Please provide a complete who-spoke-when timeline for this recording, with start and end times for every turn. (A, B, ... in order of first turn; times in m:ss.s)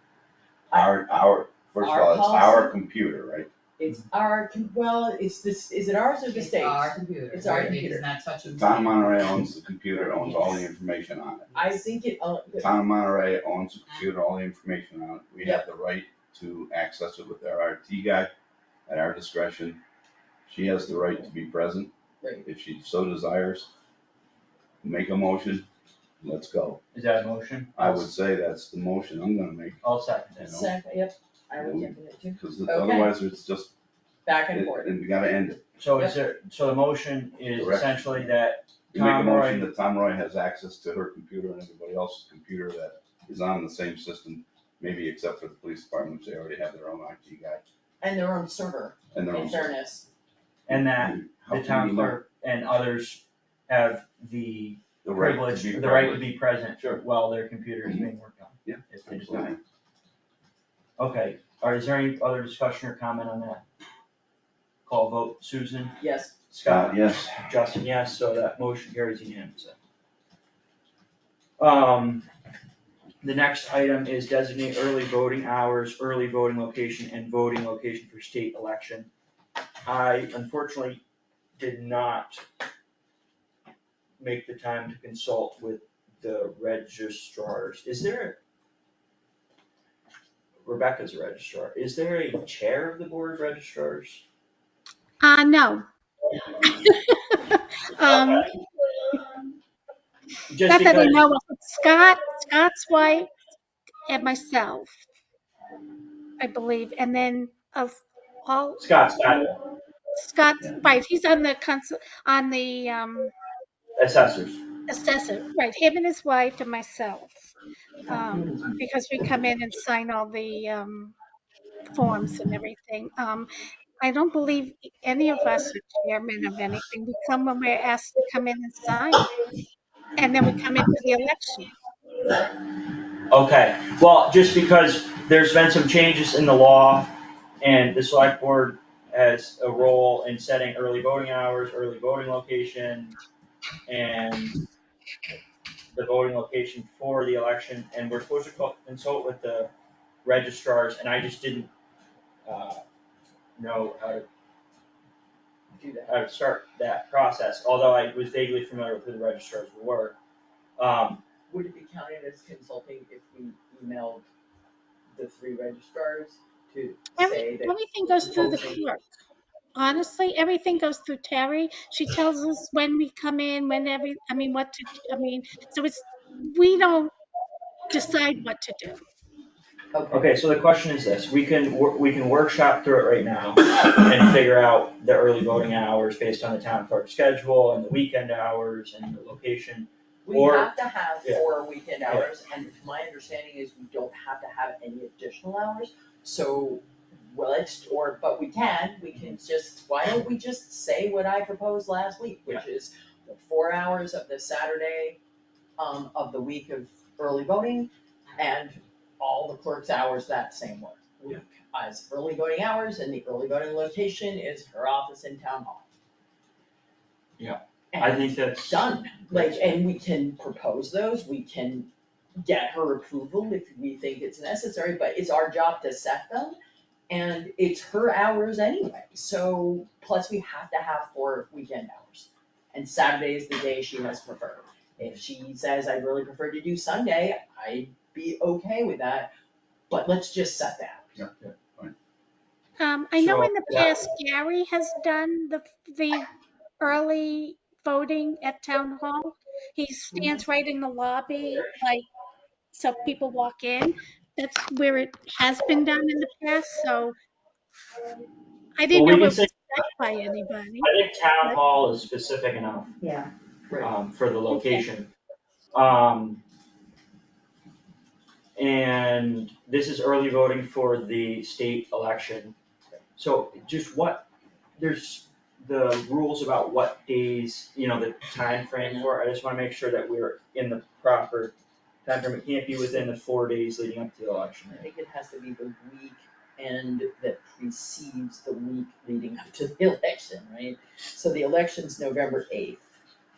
0:00.7-0:03.5 A
0:01.8-0:02.7 B
0:03.8-0:08.0 B
0:06.3-0:09.3 C
0:08.4-0:11.6 A
0:10.1-0:10.6 C
0:11.5-0:12.7 B
0:12.6-0:18.3 A
0:15.4-0:15.7 B
0:18.9-0:19.8 A
0:20.5-0:21.9 A
0:22.4-0:23.7 A
0:24.8-0:25.6 A
0:26.2-0:26.8 A
0:26.9-0:28.0 D
0:27.8-0:29.8 A
0:29.8-0:30.5 D
0:30.4-0:30.7 A
0:30.5-0:33.1 B
0:31.6-0:33.7 A
0:34.2-0:34.9 B
0:34.5-0:35.6 A
0:35.8-0:39.7 D
0:37.5-0:38.2 A
0:38.9-0:47.6 A
0:48.0-0:50.1 B
0:49.1-0:49.7 A
0:50.7-0:52.2 A
0:50.7-0:59.5 D
0:55.0-0:56.3 A
0:58.6-0:59.6 A
1:01.0-1:03.6 D
1:04.8-1:06.0 D
1:06.0-1:06.3 B
1:06.5-1:09.7 D
1:06.6-1:07.3 A
1:11.6-1:12.3 D
1:13.2-1:19.1 D
1:19.8-1:21.0 D
1:21.6-1:22.4 D
1:24.2-1:28.4 D
1:30.6-1:34.2 D
1:35.2-1:35.8 E
1:36.6-1:38.6 E
1:40.5-1:41.2 D
1:40.6-1:43.3 E
1:44.1-1:44.9 E
1:46.4-1:49.4 E
1:48.8-1:49.6 D
1:50.1-1:53.3 E
1:54.0-1:54.6 D
1:54.9-1:57.4 E
1:58.1-2:01.2 E
1:58.3-1:58.7 D
2:01.9-2:03.5 E
2:04.0-2:09.3 E
2:10.2-2:11.7 E
2:13.3-2:23.2 D
2:23.9-2:24.6 D
2:25.9-2:29.7 D
2:30.2-2:31.7 D
2:32.4-2:32.8 D
2:33.6-2:34.2 D
2:35.8-2:36.2 B
2:36.1-2:40.2 D
2:40.8-2:41.2 D
2:41.5-2:44.2 B
2:45.1-2:48.8 B
2:47.2-2:49.0 E
2:49.8-2:57.1 E
2:57.9-2:59.0 E
2:59.9-3:00.3 B
3:00.1-3:11.4 D
3:10.2-3:25.2 B
3:25.8-3:35.9 B
3:37.4-3:39.8 D
3:37.9-3:46.6 B
3:47.1-3:59.3 B
3:59.9-4:01.2 B
4:01.2-4:01.9 A
4:01.2-4:01.5 D
4:02.8-4:06.3 E
4:03.2-4:03.9 D
4:06.8-4:12.0 E
4:12.7-4:17.1 E
4:18.8-4:21.6 E
4:18.9-4:19.5 D
4:20.8-4:22.9 D
4:23.0-4:23.3 C
4:23.8-4:25.1 D
4:24.5-4:24.8 E
4:25.7-4:26.4 D
4:28.6-4:32.5 D
4:33.2-4:34.2 D
4:34.8-4:41.5 D
4:38.8-4:39.1 B
4:42.0-4:44.8 D
4:44.7-4:52.8 B